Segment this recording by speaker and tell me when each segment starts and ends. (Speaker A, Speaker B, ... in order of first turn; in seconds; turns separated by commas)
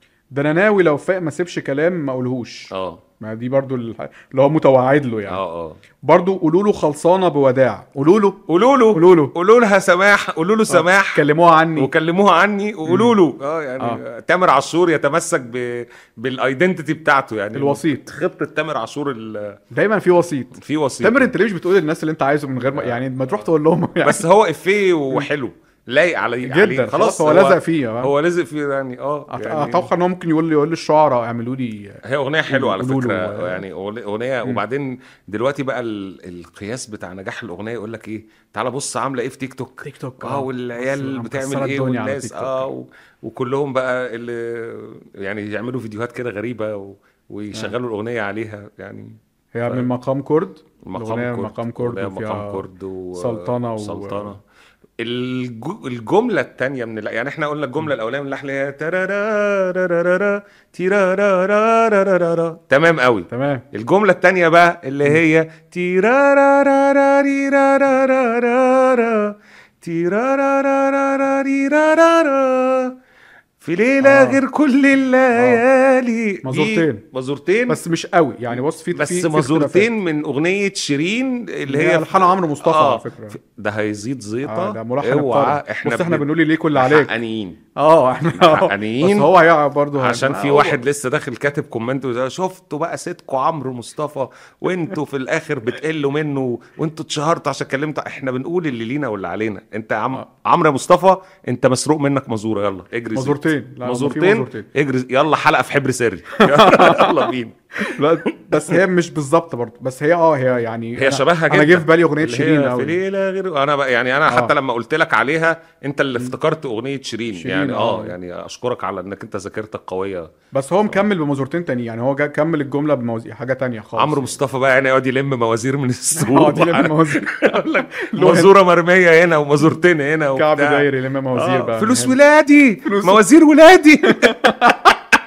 Speaker A: 0.3-5.4, Speaker B: 2.7-3.0, Speaker B: 5.3-5.8, Speaker A: 6.0-8.4, Speaker B: 8.5-11.2, Speaker A: 8.9-9.3, Speaker A: 10.7-11.9, Speaker B: 11.8-19.6, Speaker A: 12.9-13.2, Speaker A: 17.6-18.1, Speaker A: 19.7-24.2, Speaker B: 20.6-21.3, Speaker B: 22.7-23.0, Speaker B: 24.0-29.9, Speaker A: 26.5-28.1, Speaker A: 29.3-33.6, Speaker B: 32.0-49.9, Speaker A: 39.8-42.7, Speaker A: 49.5-52.6, Speaker B: 50.9-54.4, Speaker A: 53.1-54.4, Speaker B: 55.0-73.0, Speaker A: 63.3-63.6, Speaker B: 73.6-77.8, Speaker A: 74.0-74.4, Speaker A: 75.3-75.6, Speaker A: 76.4-77.0, Speaker A: 77.7-79.9, Speaker B: 78.5-87.6, Speaker A: 81.7-83.4, Speaker A: 84.5-87.1, Speaker A: 87.8-90.8, Speaker B: 88.3-89.3, Speaker B: 90.0-108.0, Speaker A: 103.1-104.7, Speaker A: 106.4-107.3, Speaker A: 107.8-113.0, Speaker B: 108.5-108.8, Speaker B: 111.0-120.3, Speaker A: 117.4-118.2, Speaker A: 120.5-124.4, Speaker B: 124.0-134.7, Speaker A: 126.2-128.5, Speaker A: 130.4-132.2, Speaker A: 132.8-133.2, Speaker A: 134.1-135.0